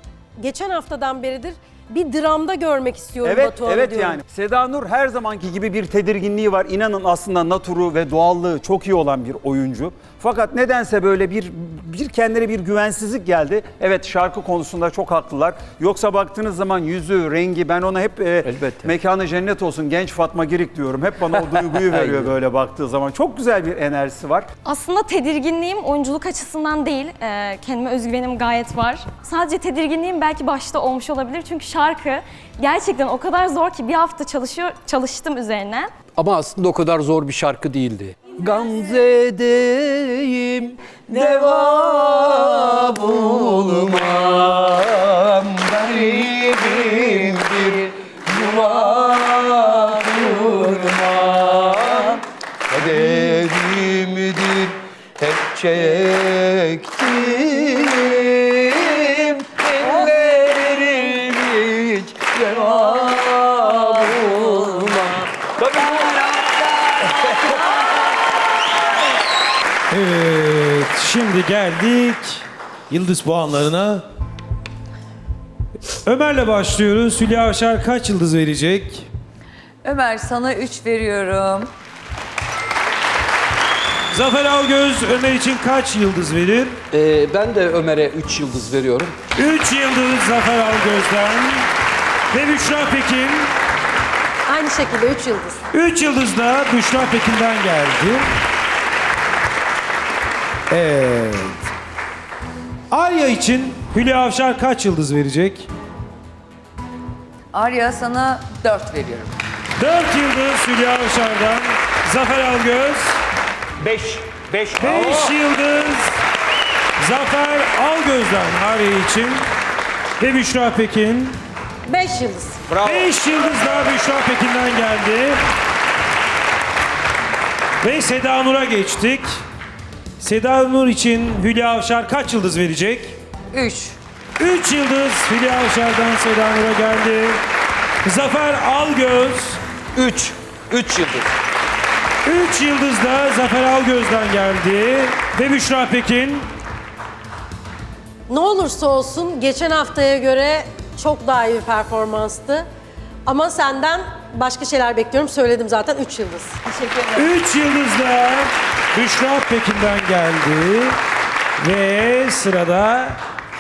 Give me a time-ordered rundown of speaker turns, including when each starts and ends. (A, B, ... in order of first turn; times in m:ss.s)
0:00.4-0:04.2 A
0:03.2-0:24.5 B
0:18.5-0:18.9 C
0:22.0-0:22.3 C
0:24.6-0:35.9 D
0:36.2-0:52.0 C
0:52.7-1:05.0 C
1:09.9-1:14.0 E
1:16.0-1:19.1 E
1:19.8-1:21.7 F
1:24.1-1:26.8 E
1:26.9-1:29.1 C
1:29.4-1:31.7 E
1:32.3-1:33.5 E
1:34.5-1:35.6 A
1:35.7-1:38.3 E
1:40.7-1:41.6 E
1:42.9-1:45.7 E
1:47.5-1:49.3 F
1:49.8-1:53.1 E
1:53.8-1:55.3 B
1:54.8-1:56.1 E
1:57.0-1:59.4 E
2:00.2-2:01.4 E
2:01.9-2:02.6 A
2:02.7-2:03.1 B
2:02.8-2:05.4 E
2:07.8-2:09.4 E
2:10.2-2:13.2 E
2:13.5-2:14.0 F
2:14.4-2:17.4 E
2:18.0-2:19.6 E
2:20.0-2:21.2 C
2:22.2-2:26.5 E
2:28.3-2:32.6 A
2:33.3-2:36.6 A
2:37.2-2:40.9 E
2:41.6-2:43.2 E